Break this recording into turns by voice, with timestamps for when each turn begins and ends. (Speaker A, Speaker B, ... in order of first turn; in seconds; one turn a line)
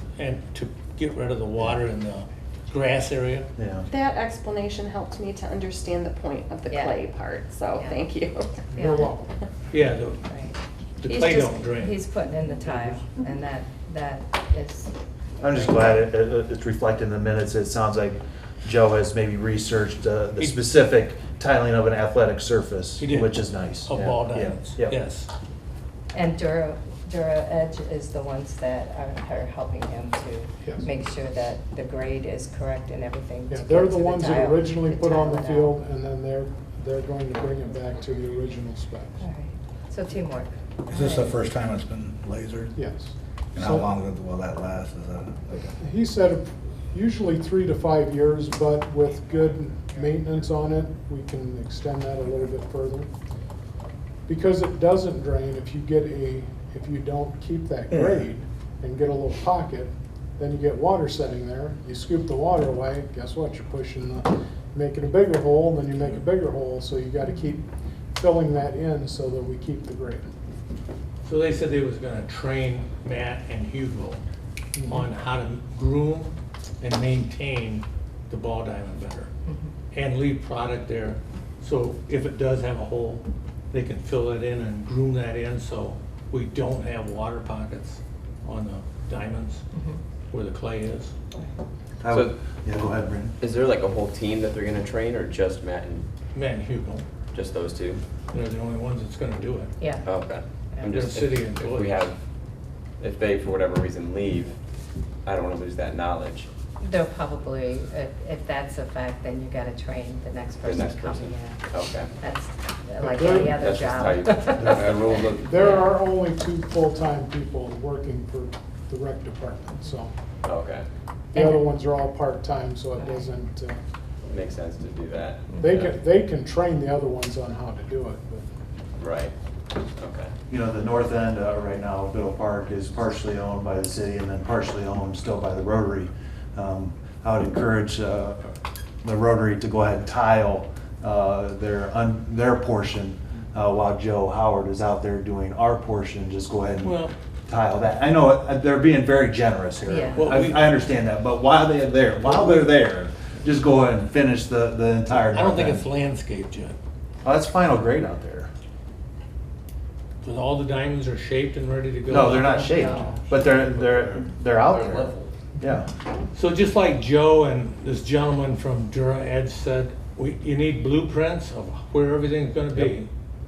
Speaker A: 0.2-3.5
Speaker B: 3.6-3.9
Speaker C: 3.9-8.6
Speaker D: 6.7-7.0
Speaker D: 7.8-8.1
Speaker E: 8.7-9.3
Speaker D: 8.7-9.1
Speaker A: 9.7-10.2
Speaker D: 10.3-10.6
Speaker A: 11.0-12.0
Speaker D: 11.7-14.9
Speaker B: 15.4-25.0
Speaker D: 15.4-16.0
Speaker A: 23.0-25.3
Speaker F: 23.9-24.2
Speaker D: 26.1-35.7
Speaker E: 30.6-30.9
Speaker E: 33.5-39.2
Speaker D: 39.2-41.4
Speaker G: 40.9-42.8
Speaker E: 42.8-43.9
Speaker G: 43.5-45.7
Speaker E: 45.8-53.1
Speaker E: 54.3-70.3
Speaker A: 71.2-74.2
Speaker E: 74.8-75.1
Speaker A: 74.8-79.3
Speaker D: 79.5-79.7
Speaker A: 79.9-89.6
Speaker D: 89.7-90.0
Speaker A: 90.3-91.1
Speaker B: 92.0-93.3
Speaker F: 92.0-92.4
Speaker F: 93.4-96.1
Speaker A: 96.3-97.1
Speaker F: 97.3-98.0
Speaker A: 98.3-99.8
Speaker D: 99.8-100.1
Speaker F: 100.0-102.2
Speaker A: 100.9-102.1
Speaker F: 103.0-104.6
Speaker F: 105.2-106.5
Speaker D: 106.8-111.6
Speaker F: 110.6-112.1
Speaker D: 112.2-115.9
Speaker E: 113.0-114.1
Speaker F: 113.6-115.4
Speaker B: 114.6-114.9
Speaker E: 115.3-120.1
Speaker F: 120.4-120.9
Speaker E: 121.3-123.8
Speaker D: 121.3-121.7
Speaker D: 123.0-123.3
Speaker F: 124.3-125.9
Speaker E: 125.6-128.6
Speaker F: 129.0-130.3
Speaker B: 130.5-138.4
Speaker B: 139.0-155.9
Speaker A: 146.8-147.2
Speaker D: 149.9-150.4
Speaker A: 150.2-150.8
Speaker A: 152.2-152.7
Speaker A: 155.2-156.8
Speaker B: 157.2-158.5
Speaker A: 160.2-163.0
Speaker B: 162.1-165.9
Speaker D: 162.7-163.2
Speaker F: 163.8-165.3
Speaker A: 166.3-173.1